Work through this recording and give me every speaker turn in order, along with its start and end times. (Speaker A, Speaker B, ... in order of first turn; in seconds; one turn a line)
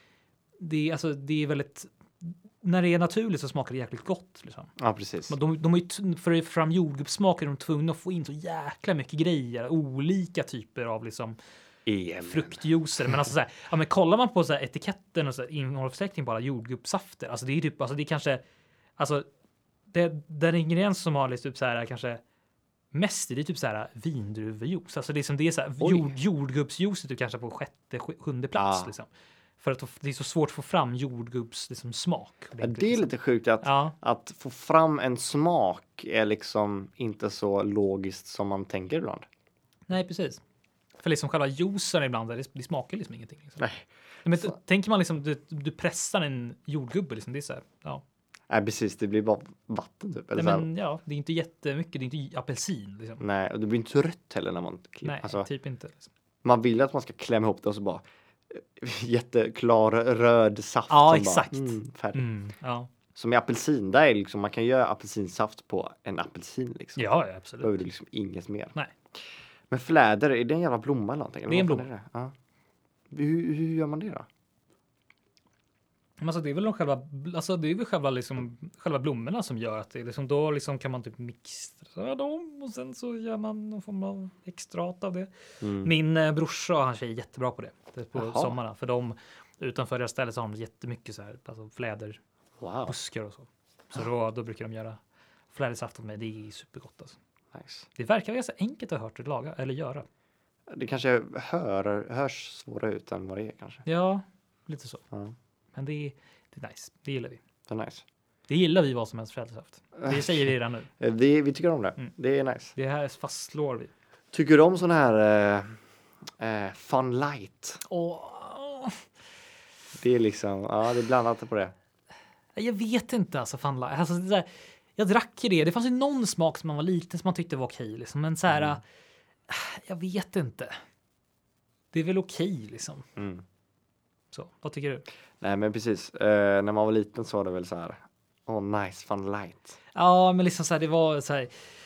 Speaker A: 0.6-4.7
Speaker B: 4.8-5.3
Speaker A: 5.3-11.4
Speaker B: 11.9-12.6
Speaker A: 12.2-18.4
Speaker A: 19.0-19.3
Speaker A: 19.9-22.2
Speaker A: 22.9-33.1
Speaker B: 25.8-26.1
Speaker B: 28.6-28.9
Speaker B: 32.6-39.2
Speaker A: 33.6-34.0
Speaker A: 39.9-40.4
Speaker A: 41.0-43.6
Speaker B: 43.6-44.5
Speaker A: 44.2-48.0
Speaker B: 48.5-50.7
Speaker A: 50.4-53.2
Speaker B: 53.2-55.5
Speaker A: 55.0-56.1
Speaker B: 56.4-62.3
Speaker A: 60.9-62.9
Speaker B: 63.1-67.1
Speaker A: 67.0-67.7
Speaker B: 67.6-68.8
Speaker B: 69.7-72.3
Speaker A: 71.5-71.9
Speaker B: 73.1-74.3
Speaker A: 76.2-85.3
Speaker B: 85.6-85.9
Speaker A: 85.8-92.2
Speaker B: 88.2-88.6
Speaker B: 92.6-93.0
Speaker A: 92.9-95.0
Speaker A: 95.5-97.2
Speaker B: 97.5-97.9
Speaker A: 98.0-100.1
Speaker B: 100.7-103.8
Speaker A: 103.8-105.0
Speaker A: 105.7-107.4
Speaker B: 107.7-108.0
Speaker A: 108.5-110.9
Speaker B: 110.0-110.5
Speaker B: 111.0-112.7
Speaker A: 112.8-113.9
Speaker B: 114.3-115.8
Speaker B: 116.4-117.8
Speaker A: 117.8-119.0
Speaker B: 120.0-121.7
Speaker A: 122.5-128.8
Speaker B: 128.5-128.8
Speaker A: 129.5-130.8
Speaker A: 131.9-133.1
Speaker B: 133.2-133.4
Speaker A: 134.3-135.0
Speaker B: 135.4-139.8
Speaker A: 139.9-141.7